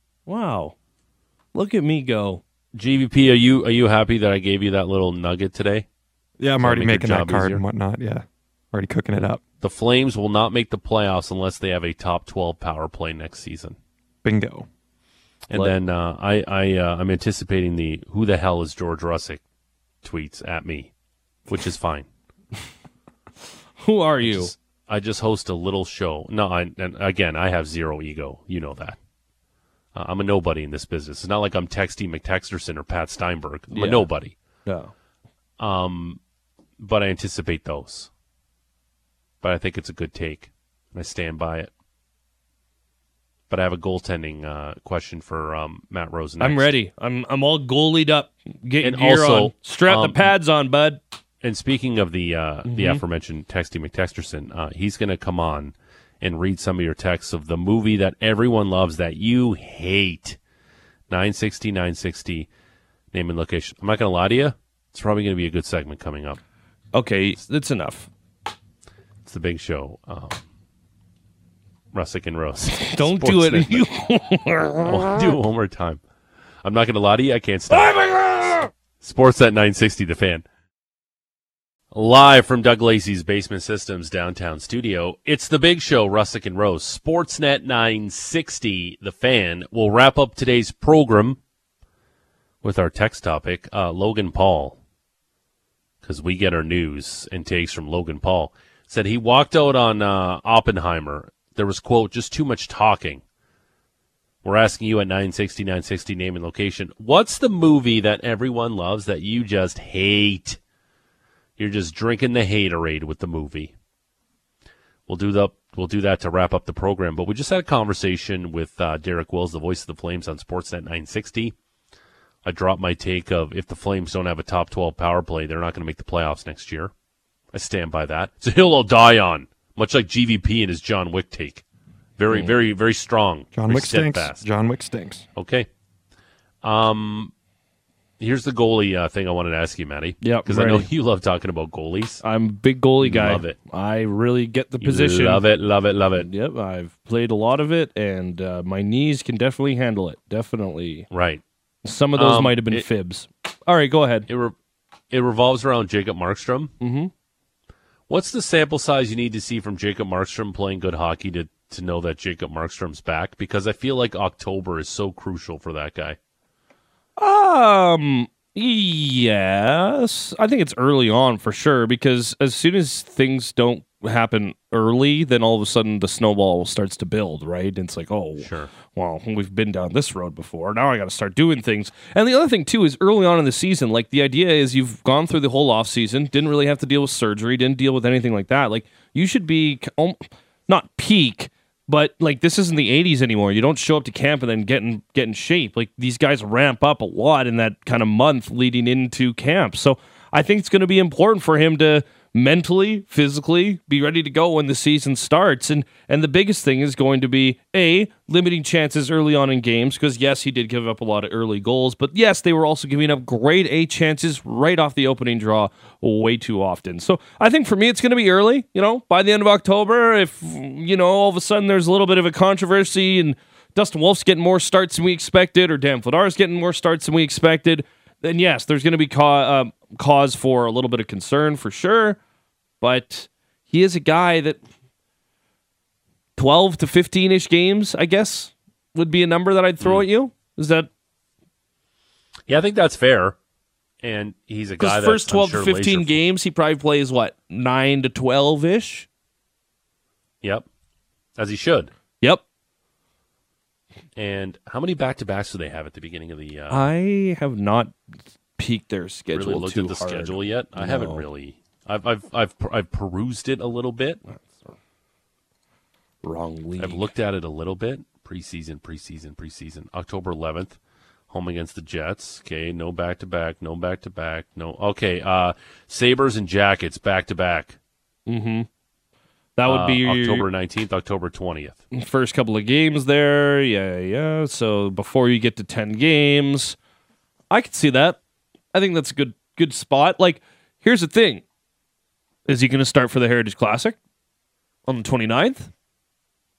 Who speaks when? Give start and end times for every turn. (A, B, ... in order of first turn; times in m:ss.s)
0:00.3-0:00.7 A
0:01.5-0:02.4 A
0:02.7-0:05.8 B
0:06.4-0:09.4 C
0:06.6-0:07.6 B
0:09.6-0:13.8 B
0:14.2-0:14.6 C
0:15.5-0:19.4 B
0:20.0-0:20.9 B
0:21.5-0:22.1 B
0:23.8-0:24.5 A
0:24.2-0:29.0 B
0:29.9-0:34.3 B
0:33.7-0:34.0 A
0:34.6-0:34.9 A
0:35.6-0:36.2 B
0:36.8-0:38.1 B
0:39.4-0:41.7 B
0:43.5-0:46.7 B
0:46.4-0:51.0 A
0:48.8-0:50.3 B
0:51.4-1:00.4 B
0:52.6-0:53.0 A
1:01.1-1:02.5 B
1:03.1-1:06.4 B
1:06.9-1:08.1 A
1:09.2-1:10.4 B
1:11.9-1:13.9 B
1:12.7-1:15.3 A
1:14.8-1:16.0 B
1:16.6-1:18.0 B
1:17.7-1:18.7 A
1:19.0-1:20.4 B
1:21.9-1:31.4 B
1:32.6-1:34.8 B
1:36.0-1:43.2 B
1:44.4-1:50.6 B
1:51.6-1:53.7 B
1:55.1-2:01.5 B
2:02.4-2:06.9 B
2:07.5-2:11.6 B
2:12.2-2:14.4 B
2:13.5-2:15.2 C
2:15.3-2:15.7 B
2:16.6-2:17.3 B
2:18.2-2:22.2 B
2:20.2-2:20.9 A
2:22.2-2:25.4 A
2:23.0-2:23.6 B
2:24.8-2:26.3 B
2:26.2-2:31.1 A
2:31.1-2:31.4 B
2:31.8-2:34.3 A
2:32.2-2:32.8 B
2:34.3-2:34.6 B
2:35.1-2:36.7 B
2:36.8-2:37.1 A
2:38.1-2:46.2 B
2:47.2-3:52.2 A
2:58.4-2:58.7 B
3:52.8-3:54.6 A
3:56.4-4:00.9 A
4:02.5-4:03.4 B
4:04.0-4:06.2 B
4:04.8-4:09.1 A
4:11.4-4:11.9 B
4:14.2-4:16.9 B
4:16.7-4:17.9 A
4:18.6-4:21.2 A
4:19.3-4:24.2 B
4:24.2-4:24.7 A
4:26.2-4:27.1 A
4:26.8-4:30.8 B
4:31.3-4:37.8 B
4:38.3-4:38.7 A
4:39.6-4:40.5 A
4:39.6-4:41.8 B
4:41.9-4:46.8 A
4:47.5-4:48.2 A
4:48.7-4:51.4 A
4:52.5-4:54.0 A
4:54.9-4:55.7 A